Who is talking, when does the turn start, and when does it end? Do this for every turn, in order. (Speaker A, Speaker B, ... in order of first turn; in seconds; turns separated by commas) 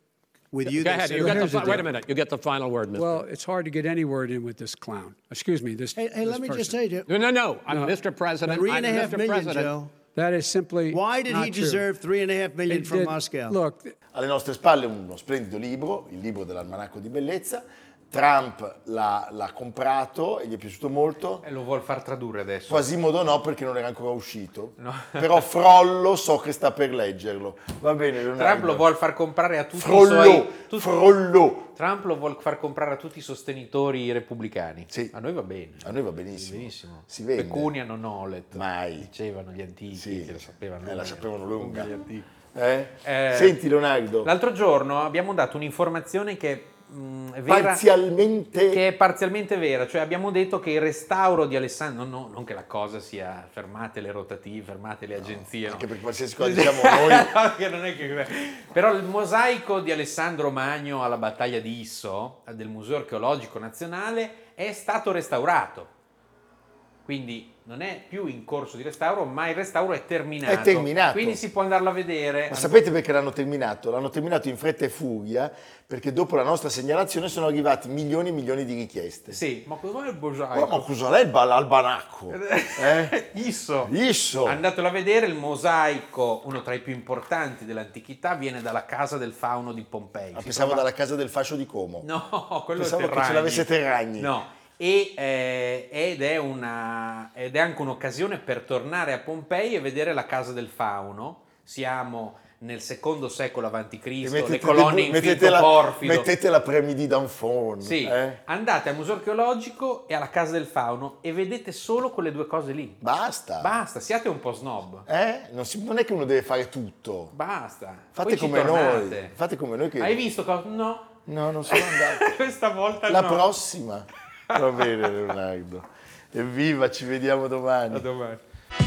Speaker A: 0.5-1.8, Speaker B: 0.7-3.2, Speaker C: 1.1-1.9, Speaker C: 2.9-6.8, Speaker A: 6.0-7.1, Speaker B: 7.1-9.7, Speaker C: 7.7-8.0, Speaker C: 8.5-9.1, Speaker A: 8.5-9.9, Speaker C: 10.1-11.9, Speaker A: 10.9-13.6, Speaker C: 12.7-13.9, Speaker D: 14.1-21.4, Speaker E: 21.4-22.9, Speaker D: 22.7-28.9, Speaker E: 24.8-25.4, Speaker E: 28.4-30.9, Speaker D: 29.7-31.7, Speaker E: 31.7-42.3, Speaker D: 34.9-35.1, Speaker D: 35.8-37.7, Speaker D: 38.5-39.1, Speaker D: 39.9-41.9, Speaker D: 42.5-44.3, Speaker E: 43.0-43.6, Speaker E: 44.2-47.8, Speaker D: 47.5-48.8, Speaker E: 48.7-55.9, Speaker D: 55.2-57.3, Speaker E: 56.4-65.9, Speaker E: 67.1-72.8, Speaker D: 70.5-71.4, Speaker D: 72.5-79.4, Speaker E: 79.3-80.9, Speaker D: 80.5-83.2, Speaker E: 82.3-83.9, Speaker D: 83.8-84.6, Speaker E: 84.5-90.8, Speaker D: 90.3-92.1, Speaker E: 92.0-106.3, Speaker D: 92.8-94.3, Speaker D: 104.2-108.4, Speaker E: 107.8-113.0, Speaker D: 113.0-113.7, Speaker E: 113.6-115.1, Speaker D: 115.1-117.3, Speaker E: 117.3-119.3, Speaker D: 118.1-120.2, Speaker E: 120.0-121.2, Speaker D: 121.3-122.4, Speaker E: 121.7-123.5, Speaker D: 123.1-128.1, Speaker E: 124.5-125.1, Speaker E: 127.9-128.4